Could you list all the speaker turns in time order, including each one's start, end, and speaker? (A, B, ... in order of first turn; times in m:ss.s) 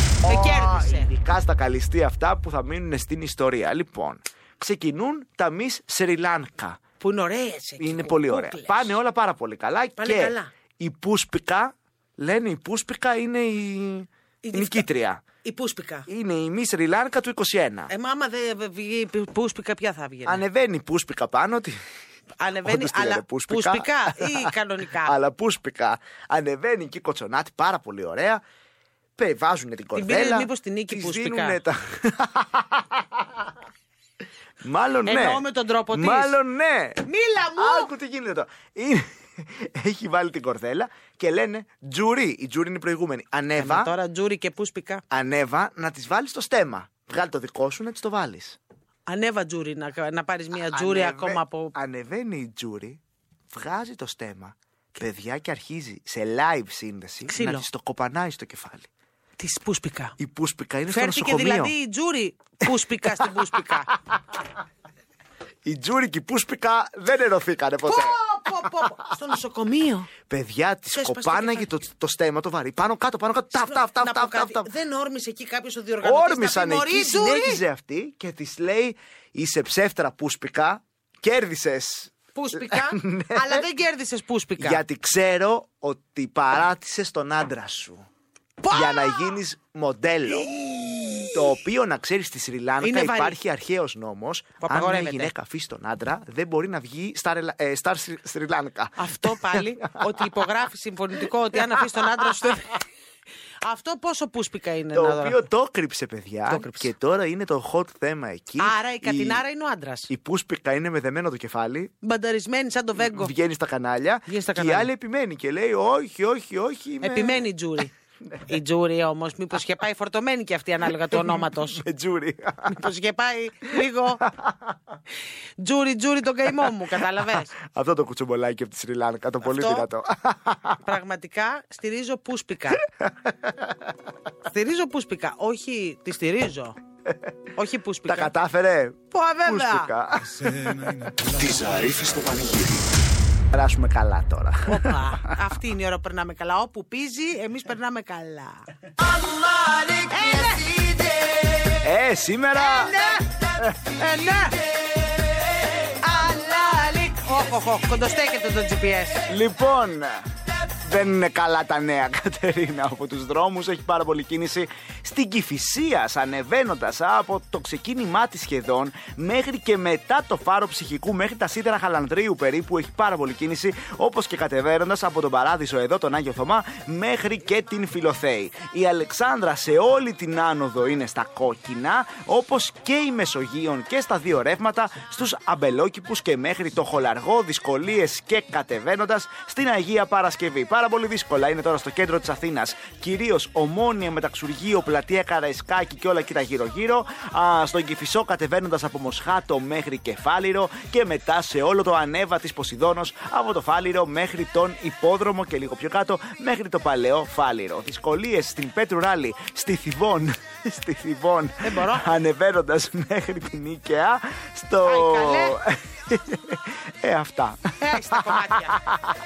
0:00.2-0:06.8 A
0:00.2-0:01.1 B
0:07.0-0:09.0 B
0:07.8-0:15.2 A
0:10.0-0:10.5 B
0:14.4-0:14.9 B
0:15.4-0:16.1 B
0:16.1-0:17.9 A
0:17.9-0:20.4 B
0:20.2-0:21.8 A
0:22.4-0:25.2 B
0:22.6-0:24.5 A
0:25.0-0:28.4 A
0:29.2-0:33.5 A
0:29.9-0:31.6 B
0:34.6-0:37.0 A
0:35.1-0:36.4 B
0:37.0-0:37.9 B
0:37.6-0:43.9 A
0:43.6-0:45.0 B
0:45.1-0:48.6 A
0:49.1-0:51.7 B
0:50.6-0:53.0 A
0:53.5-0:58.9 A
0:57.3-0:57.7 B
0:59.4-1:00.1 B
1:00.2-1:01.8 A
1:00.9-1:03.9 B
1:05.6-1:08.2 A
1:07.9-1:10.1 B
1:10.3-1:14.7 A
1:10.9-1:11.7 B
1:13.5-1:17.6 B
1:16.0-1:23.6 A
1:22.4-1:24.8 B
1:24.6-1:28.1 A
1:28.6-1:29.4 B
1:28.7-1:30.5 A
1:31.2-1:40.0 A
1:32.8-1:33.4 B
1:34.6-1:35.3 B
1:39.0-1:42.8 B
1:43.6-1:45.4 B
1:44.9-1:49.4 A
1:46.5-1:46.9 B
1:48.6-1:50.1 B
1:50.1-1:51.9 A
1:52.0-1:53.3 B
1:53.0-1:57.4 A
1:54.3-1:54.9 B
1:57.0-1:57.9 B
1:58.5-2:01.8 B
2:01.1-2:02.8 A
2:02.7-2:04.2 B
2:04.2-2:04.8 A
2:05.6-2:07.6 B
2:07.6-2:10.8 A
2:09.4-2:09.9 B
2:10.8-2:12.8 B
2:13.0-2:13.9 A
2:14.5-2:16.8 B
2:17.6-2:18.4 B
2:18.1-2:20.7 A
2:19.1-2:19.9 B
2:20.5-2:22.9 C
2:23.5-2:25.4 A
2:24.7-2:28.7 B
2:30.1-2:30.8 B
2:31.8-2:33.0 A
2:32.6-2:33.2 B
2:34.0-2:34.6 B
2:36.0-2:39.3 B
2:39.3-2:40.3 A
2:40.8-3:39.1 A
3:31.6-3:32.2 B
3:34.8-3:35.6 B
3:37.8-3:38.8 B